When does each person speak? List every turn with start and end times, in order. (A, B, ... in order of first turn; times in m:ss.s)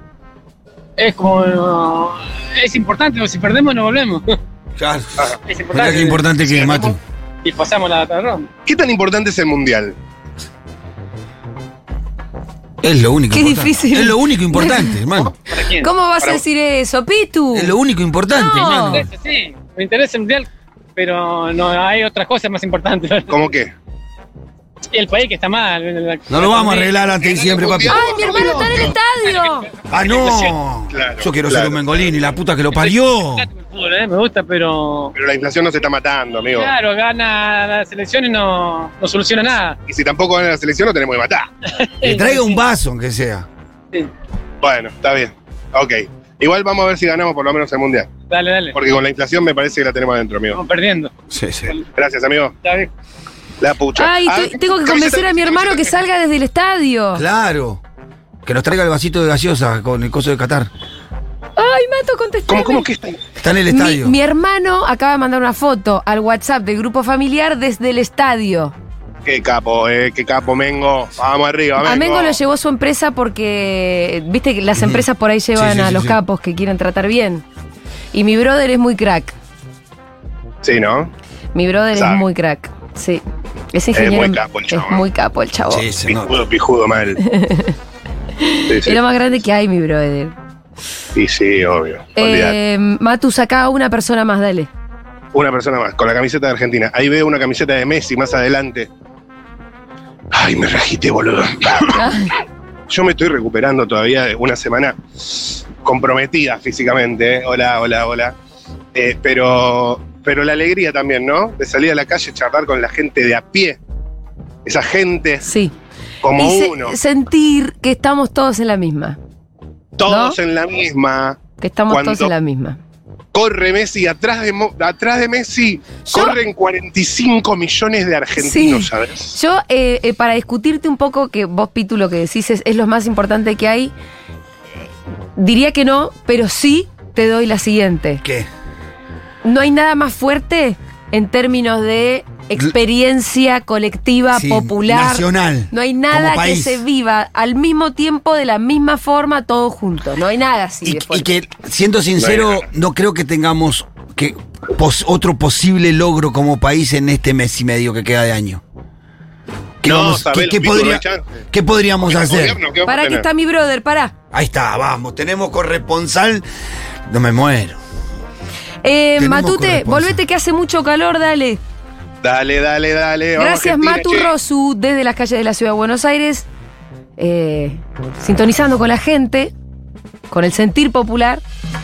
0:01.0-0:04.4 A
0:04.8-0:07.0 B
0:05.4-0:06.8 A
0:06.5-0:06.9 C
0:07.4-0:08.5 A
0:08.6-0:10.0 C
0:12.8-0:15.3 B
0:13.3-0:15.0 D
0:15.5-0:15.9 A
0:15.8-0:17.7 D
0:17.5-0:19.1 B
0:18.3-0:19.0 D
0:18.7-0:23.4 A
0:23.3-0:23.7 C
0:24.9-0:27.1 A
0:26.3-0:28.2 B
0:27.2-0:29.0 C
0:27.9-0:29.7 D
0:29.2-0:30.5 A
0:29.9-0:33.5 B
0:30.9-0:32.3 C
0:32.7-0:35.1 A
0:35.1-0:36.7 C
0:36.5-0:39.8 A
0:39.9-0:41.5 C
0:41.6-0:42.6 A
0:42.0-0:43.5 B
0:44.6-0:48.1 C
0:48.3-0:48.8 A
0:48.7-0:50.6 C
0:50.5-0:51.1 A
0:51.3-0:51.7 B
0:51.6-0:52.5 C
0:52.6-0:52.9 A
0:53.6-0:55.9 C
0:54.0-0:57.2 D
0:57.1-0:57.8 B
0:58.4-1:00.7 B
1:01.6-1:02.9 D
1:02.5-1:03.2 C
1:03.4-1:04.1 B
1:03.7-1:08.7 D
1:09.2-1:12.4 C
1:11.8-1:17.4 D
1:14.8-1:16.2 B
1:18.1-1:19.3 D
1:20.6-1:21.1 C
1:21.5-1:25.9 D
1:21.9-1:22.2 C
1:23.9-1:25.0 C
1:25.7-1:26.4 B
1:26.1-1:27.2 C
1:27.2-1:27.8 D
1:28.4-1:30.3 D
1:28.7-1:29.0 C
1:31.1-1:32.6 C
1:32.2-1:34.7 D
1:35.3-1:38.9 C
1:40.3-1:42.1 C
1:42.0-1:42.3 D
1:42.9-1:48.4 C
1:48.9-1:53.8 C
1:54.6-1:55.4 C
1:55.4-1:55.7 D
1:56.2-1:57.0 C
1:56.4-1:59.2 D
2:00.0-2:02.3 C
2:00.1-2:00.4 D
2:01.6-2:02.8 D
2:03.3-2:09.3 C
2:06.0-2:06.4 D
2:08.4-2:13.9 D
2:15.4-2:18.2 D
2:18.2-2:18.5 B
2:19.4-2:31.3 D
2:24.3-2:26.8 B
2:30.8-2:38.6 B
2:32.2-2:32.6 C
2:39.8-2:42.6 B
2:39.8-2:41.4 C
2:42.0-2:43.3 C
2:42.8-2:44.1 D
2:44.3-2:46.4 B
2:47.1-2:47.8 B
2:48.8-2:51.6 D
2:49.2-2:50.2 B
2:52.2-2:54.3 C
2:53.4-2:56.4 D
2:57.2-2:59.5 D
3:00.3-3:01.4 D